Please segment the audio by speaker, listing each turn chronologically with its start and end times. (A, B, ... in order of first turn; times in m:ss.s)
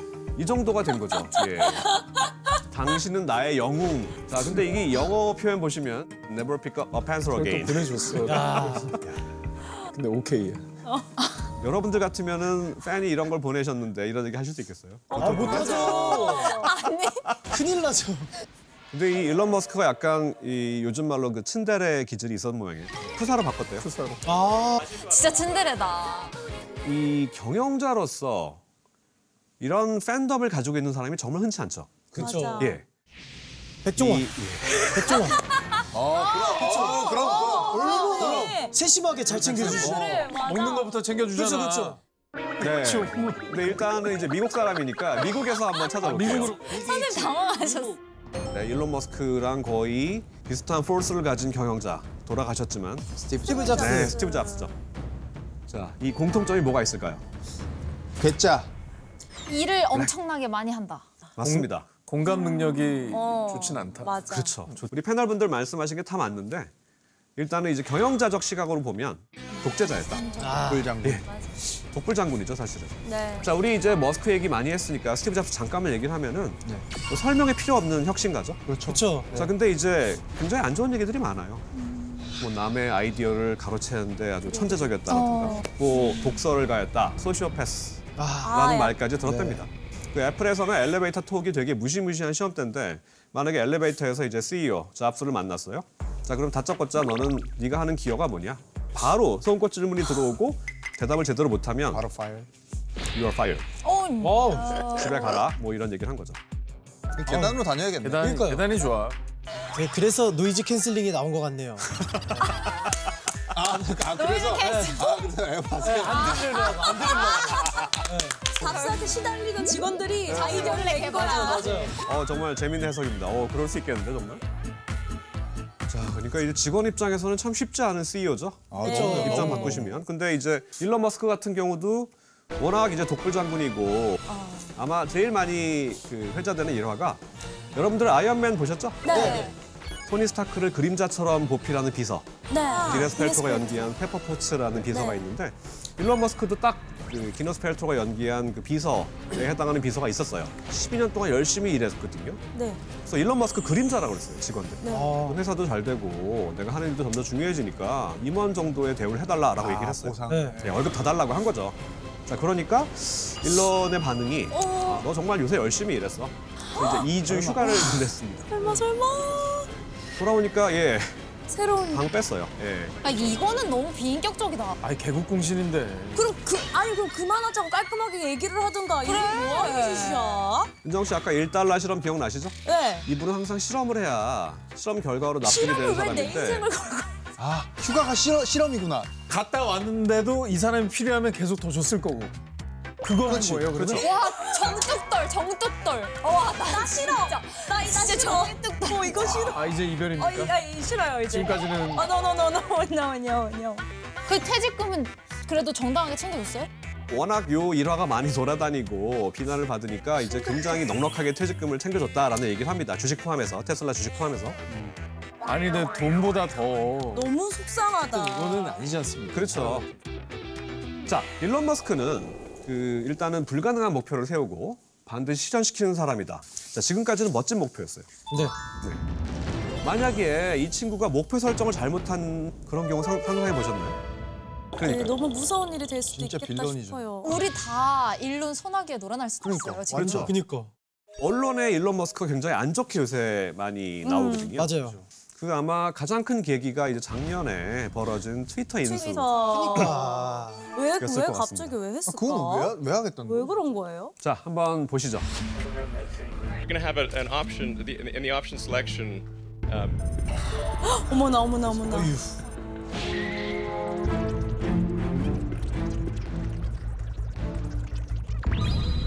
0:00.3-0:02.0 A
0:01.7-0:02.0 B
0:02.7-0:08.1 A
0:07.3-0:09.0 C
0:08.2-0:08.9 D
0:09.9-0:10.7 C
0:11.6-0:16.0 A
0:15.1-0:16.7 B
0:15.1-0:16.6 D
0:15.8-0:17.3 E
0:17.5-0:18.3 D
0:18.9-0:23.9 A
0:23.8-0:24.2 C
0:24.2-0:24.9 D
0:24.9-0:26.3 E
0:26.8-0:28.6 A
0:29.6-0:32.8 A
0:32.1-0:32.7 D
0:32.2-0:32.8 B
0:33.8-0:35.4 D
0:34.0-0:35.1 A
0:35.9-0:38.6 F
0:36.1-0:36.8 C
0:36.1-0:38.7 E
0:36.6-0:38.7 B
0:36.6-0:37.1 D
0:37.7-0:40.2 D
0:39.3-0:42.0 C
0:39.8-0:41.0 B
0:41.3-0:42.0 D
0:42.6-0:46.6 A
0:42.6-0:43.6 C
0:46.0-0:46.7 C
0:46.6-0:48.0 E
0:46.7-0:47.3 F
0:48.5-0:54.7 A
0:53.2-0:54.2 F
0:53.4-0:54.8 B
0:55.7-0:57.2 A
0:58.2-0:58.7 F
0:59.5-1:01.1 E
1:01.4-1:01.9 A
1:01.4-1:04.2 C
1:02.2-1:04.6 B
1:04.2-1:06.7 A
1:07.4-1:10.4 A
1:10.2-1:10.6 B
1:10.4-1:10.9 D
1:10.6-1:11.2 F
1:11.2-1:11.5 B
1:11.8-1:18.6 A
1:13.0-1:13.5 B
1:18.7-1:19.5 F
1:18.8-1:19.3 D
1:19.3-1:21.6 A
1:21.8-1:22.3 E
1:22.4-1:42.0 A
1:25.1-1:26.2 E
1:28.4-1:29.0 B
1:29.2-1:29.6 F
1:41.9-1:42.5 F
1:43.1-1:43.6 A
1:43.8-1:45.4 E
1:44.2-1:44.8 D
1:44.9-1:46.4 A
1:47.2-1:48.3 F
1:47.3-1:47.6 D
1:48.0-1:49.2 C
1:48.2-1:48.6 D
1:49.7-1:51.9 D
1:53.5-1:56.8 F
1:53.6-1:54.0 D
1:54.1-1:55.3 E
1:54.6-1:55.0 D
1:55.8-1:58.4 D
1:56.0-1:57.8 E
1:57.0-1:57.9 B
1:58.5-2:02.0 E
1:58.5-2:01.9 B
2:01.1-2:01.9 D
2:02.0-2:04.4 A
2:05.9-2:17.2 A
2:08.7-2:09.9 F
2:08.8-2:09.7 D
2:08.8-2:09.8 B
2:14.3-2:14.7 B
2:17.7-2:19.5 A
2:19.0-2:19.5 B
2:19.1-2:19.5 D
2:20.1-2:32.4 A
2:22.5-2:23.9 B
2:24.9-2:25.2 B
2:32.5-2:32.8 B
2:33.0-2:48.5 A
2:34.8-2:35.2 B
2:34.9-2:35.4 D
2:39.6-2:40.9 F
2:40.3-2:40.6 D
2:44.5-2:45.1 B
2:46.7-2:47.1 B
2:47.3-2:47.5 F
2:47.6-2:49.7 B
2:50.2-2:51.2 A
2:51.5-2:52.1 B
2:51.9-2:53.0 A
2:53.0-2:54.8 E
2:54.8-2:56.3 C
2:56.1-3:00.7 B
2:59.0-3:00.4 E
3:00.8-3:06.6 A
3:02.6-3:03.1 B
3:05.4-3:07.1 B
3:07.4-3:09.1 F
3:09.3-3:12.3 C
3:13.0-3:14.1 C
3:13.2-3:14.1 F
3:14.0-3:19.5 E
3:16.3-3:23.8 B
3:19.5-3:20.5 C
3:21.2-3:22.1 C
3:24.2-3:26.7 E
3:27.1-3:34.9 A
3:35.4-3:37.3 C
3:37.1-3:38.9 B
3:38.1-3:39.9 C
3:39.3-3:39.9 A
3:41.0-3:48.1 A
3:48.3-3:48.5 D
3:49.8-3:54.0 A
3:54.8-3:55.2 A
3:54.8-3:57.4 B
3:56.1-3:57.1 F
3:57.2-4:00.2 E
3:59.4-4:00.3 F
3:59.9-4:00.3 A
3:59.9-4:00.7 D
4:01.2-4:04.8 A
4:04.0-4:04.5 B
4:04.6-4:05.0 D
4:05.4-4:09.9 A
4:08.8-4:10.1 B
4:09.5-4:10.7 D
4:10.7-4:14.1 B
4:11.0-4:11.8 A
4:12.0-4:13.6 F
4:14.2-4:15.3 A
4:16.6-4:20.0 G
4:20.8-4:22.1 B